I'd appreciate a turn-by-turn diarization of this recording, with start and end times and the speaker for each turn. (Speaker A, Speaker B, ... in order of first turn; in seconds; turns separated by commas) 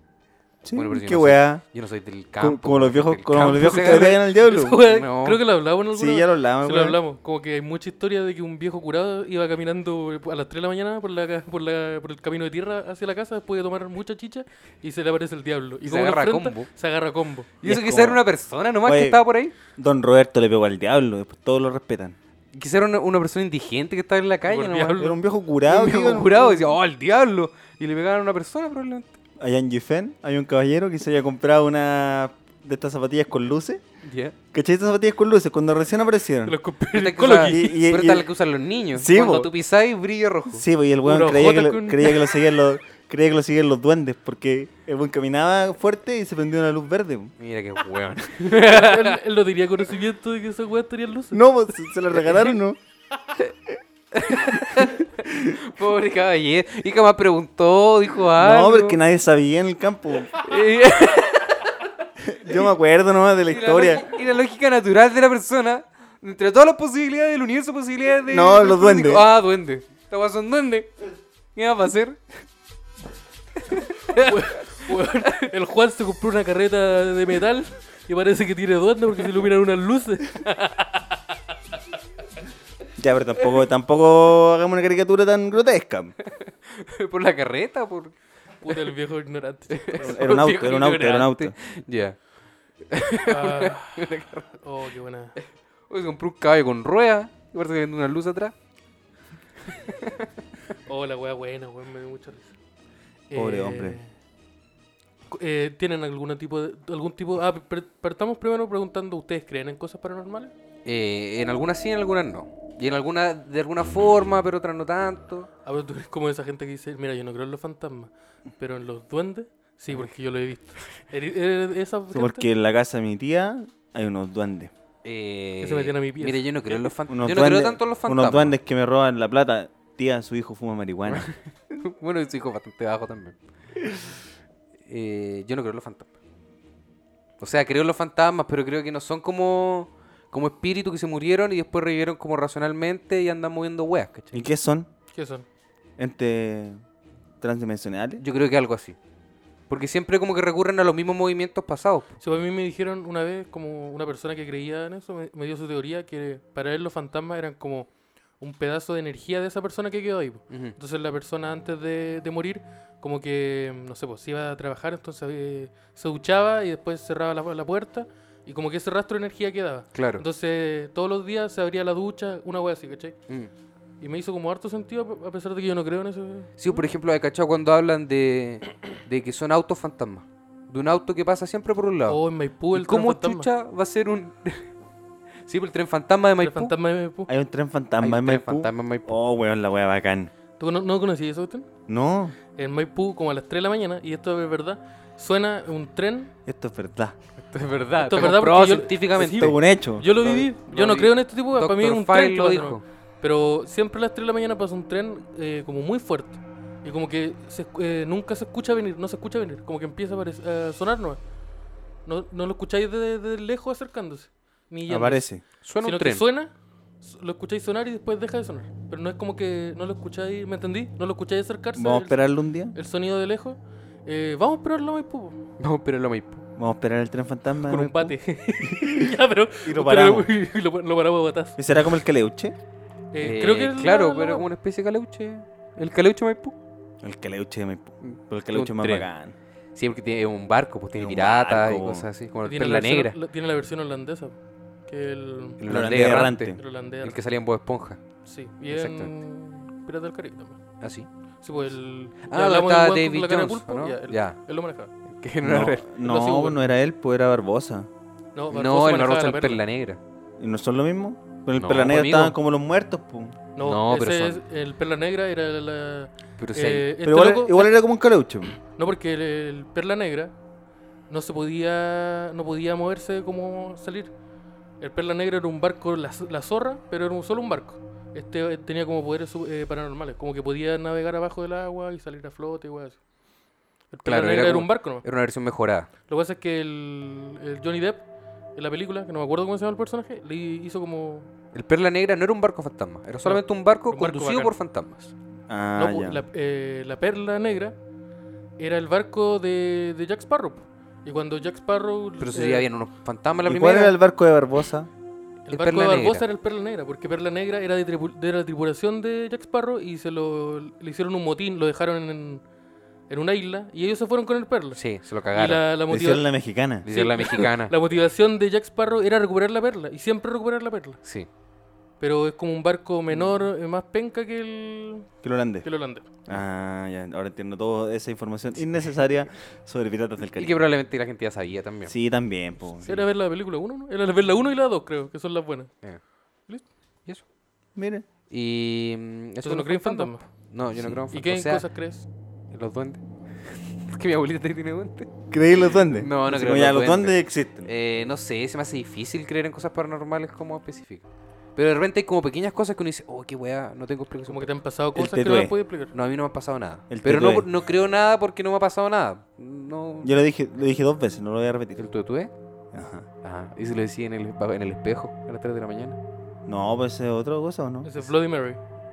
Speaker A: 0.6-1.6, Speaker B: 0.7-4.2, Speaker A: 2.4-4.8, Speaker C: 3.5-17.5, Speaker B: 4.8-5.4, Speaker A: 5.9-7.0, Speaker B: 15.8-16.7, Speaker B: 17.6-19.5, Speaker A: 17.6-18.2, Speaker A: 18.8-19.2, Speaker A: 19.7-22.2, Speaker B: 22.5-25.1, Speaker C: 24.5-25.2, Speaker A: 25.0-26.4, Speaker B: 25.7-29.1, Speaker C: 26.3-26.6, Speaker A: 29.4-33.8, Speaker B: 34.0-34.3, Speaker A: 34.5-36.5, Speaker C: 36.4-37.8, Speaker B: 36.9-40.6, Speaker A: 37.4-38.3, Speaker A: 38.9-39.5, Speaker A: 40.5-47.3, Speaker C: 41.0-42.5, Speaker B: 47.4-49.2, Speaker C: 48.5-51.4, Speaker A: 51.3-52.8, Speaker C: 52.1-52.4, Speaker B: 54.1-59.0, Speaker A: 54.4-55.6, Speaker A: 58.4-60.4, Speaker B: 60.3-61.9, Speaker A: 62.2-64.0, Speaker B: 63.5-70.9, Speaker A: 68.3-69.2, Speaker B: 71.5-72.2, Speaker B: 73.6-75.3, Speaker C: 74.1-81.2, Speaker A: 83.0-86.1, Speaker B: 86.2-88.2, Speaker C: 88.6-90.5, Speaker B: 89.7-92.2, Speaker A: 90.0-91.5, Speaker B: 92.8-94.5, Speaker C: 93.3-95.3, Speaker B: 95.4-98.5, Speaker B: 99.6-100.3, Speaker C: 100.9-102.5, Speaker C: 103.3-104.1, Speaker A: 103.3-104.0, Speaker C: 105.3-110.5, Speaker B: 110.8-115.5, Speaker C: 115.6-122.5, Speaker A: 122.1-124.7, Speaker B: 125.0-128.6, Speaker C: 125.6-126.5, Speaker A: 127.1-131.3, Speaker B: 131.1-133.4, Speaker B: 134.8-136.1, Speaker B: 137.4-144.5, Speaker A: 144.3-144.9, Speaker C: 145.1-145.4, Speaker A: 146.0-146.8, Speaker A: 147.4-148.2, Speaker B: 148.2-149.0, Speaker B: 149.7-152.1, Speaker C: 152.2-157.9, Speaker C: 158.4-173.2, Speaker B: 160.5-160.8, Speaker B: 169.9-170.2, Speaker C: 174.0-176.8, Speaker B: 176.6-182.2, Speaker C: 182.1-183.5, Speaker B: 182.7-184.7, Speaker B: 185.4-186.7, Speaker C: 186.4-187.3, Speaker A: 187.3-190.3, Speaker B: 188.0-189.2, Speaker C: 190.6-191.7, Speaker A: 191.9-192.4, Speaker C: 192.5-196.3, Speaker A: 196.4-197.1, Speaker B: 197.4-199.6, Speaker C: 198.0-211.2, Speaker A: 199.2-200.5, Speaker B: 200.7-202.8, Speaker C: 212.1-215.3, Speaker A: 214.9-215.4, Speaker B: 215.6-216.2, Speaker C: 215.8-222.2, Speaker A: 221.8-222.8, Speaker C: 222.7-225.4, Speaker B: 225.6-226.4, Speaker A: 226.6-229.1, Speaker C: 227.7-232.0, Speaker A: 229.6-230.3, Speaker A: 231.6-232.6, Speaker C: 233.1-234.5, Speaker B: 233.2-236.6, Speaker A: 237.0-239.3, Speaker B: 238.0-239.1, Speaker B: 239.8-243.2, Speaker A: 241.0-242.1, Speaker C: 242.4-244.3, Speaker C: 244.9-245.6, Speaker B: 245.6-248.0, Speaker A: 245.6-246.6, Speaker C: 246.6-247.2, Speaker C: 248.2-250.6, Speaker B: 248.7-249.1, Speaker B: 250.8-251.1, Speaker C: 251.4-254.9, Speaker B: 252.2-254.4, Speaker B: 255.1-255.8, Speaker A: 255.4-257.9, Speaker C: 256.0-256.6, Speaker C: 258.3-259.6, Speaker B: 258.5-260.0, Speaker A: 260.4-263.4, Speaker B: 261.6-262.4, Speaker C: 263.6-267.7, Speaker B: 263.6-264.4, Speaker B: 266.4-266.9, Speaker A: 267.0-268.6, Speaker C: 268.6-270.3, Speaker C: 271.1-274.1, Speaker C: 274.8-283.0, Speaker C: 283.9-285.0, Speaker B: 284.1-285.9, Speaker C: 286.1-288.0, Speaker C: 288.6-291.3, Speaker B: 291.5-295.1, Speaker C: 293.2-294.6, Speaker A: 295.5-296.2, Speaker C: 295.8-297.8, Speaker C: 298.6-302.7, Speaker B: 302.2-303.9, Speaker A: 303.4-304.9, Speaker C: 305.4-312.4, Speaker B: 305.5-306.2, Speaker C: 313.1-316.2, Speaker B: 314.8-315.6, Speaker A: 315.9-316.9, Speaker B: 316.8-317.8, Speaker C: 316.9-321.0, Speaker B: 321.0-321.3, Speaker C: 322.0-325.1, Speaker B: 323.1-323.4, Speaker A: 325.2-325.7, Speaker C: 325.6-326.1, Speaker A: 326.2-330.6, Speaker B: 330.2-331.9, Speaker A: 331.9-333.0, Speaker C: 332.8-335.8, Speaker A: 337.8-338.1, Speaker B: 338.3-341.6, Speaker C: 339.4-340.2, Speaker C: 341.1-342.1, Speaker B: 342.5-345.1, Speaker A: 345.3-347.7, Speaker B: 345.8-354.5, Speaker C: 354.3-355.9, Speaker A: 354.9-355.5, Speaker B: 355.9-360.1, Speaker A: 356.9-357.4, Speaker A: 360.0-361.8, Speaker B: 361.8-362.3, Speaker A: 362.7-363.1, Speaker B: 363.2-366.0, Speaker A: 366.4-367.9, Speaker C: 367.8-368.6